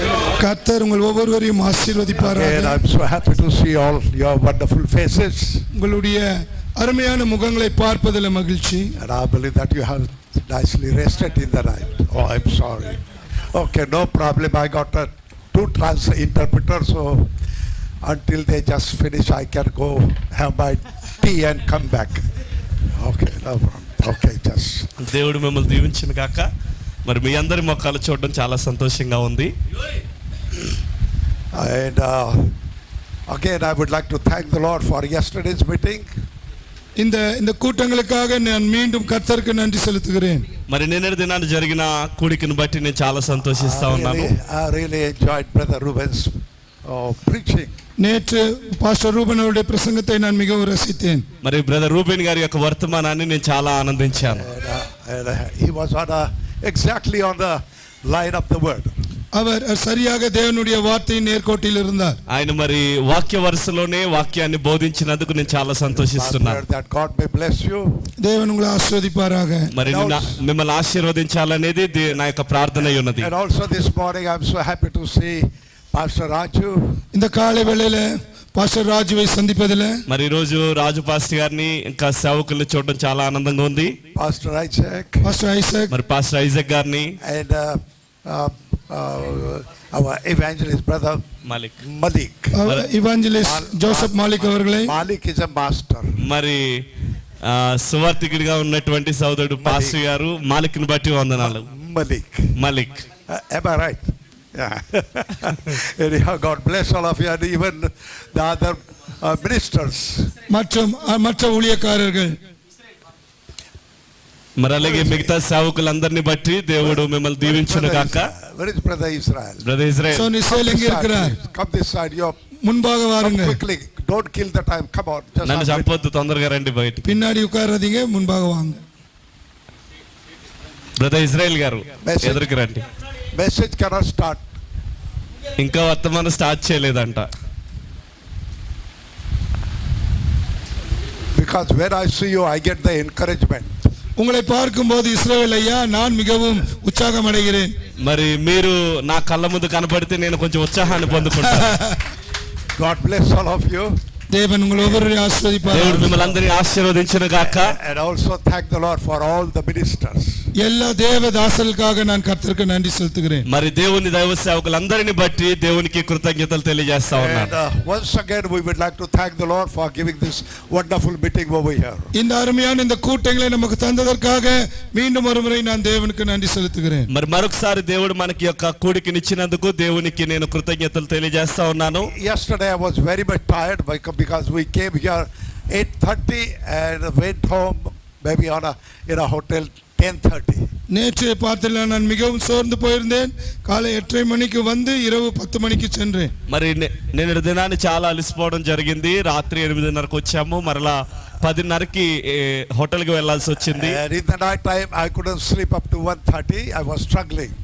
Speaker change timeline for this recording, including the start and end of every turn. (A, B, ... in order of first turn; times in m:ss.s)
0:00.4-0:02.8 A
0:02.2-0:05.7 B
0:05.7-0:08.9 A
0:09.0-0:17.3 B
0:18.0-0:22.2 B
0:23.0-0:24.9 B
0:25.0-0:26.5 C
0:27.0-0:29.5 C
0:31.5-0:32.5 B
0:33.3-0:36.1 B
0:37.0-0:40.4 A
0:40.7-0:44.3 C
0:43.5-0:46.4 B
0:46.9-0:47.7 B
0:48.0-0:51.2 A
0:51.4-0:54.5 C
0:54.3-0:58.9 B
0:59.3-1:02.2 A
1:02.3-1:06.6 C
1:05.9-1:07.9 B
1:08.2-1:09.7 A
1:09.7-1:13.3 C
1:09.8-1:10.4 B
1:13.1-1:17.0 B
1:17.1-1:20.0 A
1:20.1-1:24.0 C
1:24.1-1:25.3 B
1:25.2-1:25.9 A
1:25.9-1:27.2 C
1:27.2-1:31.2 B
1:31.4-1:31.8 C
1:31.8-1:32.6 B
1:32.5-1:35.0 A
1:33.4-1:36.2 B
1:36.2-1:36.8 C
1:37.4-1:41.6 C
1:39.6-1:40.0 B
1:41.4-1:42.5 B
1:42.6-1:43.0 C
1:43.3-1:50.3 B
1:50.5-1:52.4 A
1:54.6-1:58.3 C
1:54.8-1:55.3 B
1:56.8-1:59.7 B
1:59.6-2:00.3 C
2:00.1-2:01.3 A
2:00.5-2:02.4 B
2:02.6-2:03.6 A
2:03.2-2:05.9 B
2:05.4-2:07.2 C
2:07.0-2:08.8 A
2:11.0-2:12.8 C
2:12.0-2:12.5 B
2:13.3-2:14.4 B
2:15.6-2:17.3 C
2:21.3-2:23.8 B
2:24.2-2:27.7 A
2:28.0-2:31.7 C
2:30.8-2:31.4 B
2:31.5-2:32.0 A
2:32.8-2:33.9 B
2:34.3-2:36.1 A
2:34.8-2:35.1 B
2:35.7-2:37.7 C
2:35.9-2:36.4 B
2:37.4-2:40.4 B
2:40.6-2:43.4 A
2:43.5-2:47.5 C
2:47.1-2:52.1 B
2:52.1-2:57.1 A
2:57.1-3:02.1 C
3:02.0-3:10.6 B
3:10.9-3:16.3 A
3:16.5-3:24.0 C
3:23.6-3:27.5 B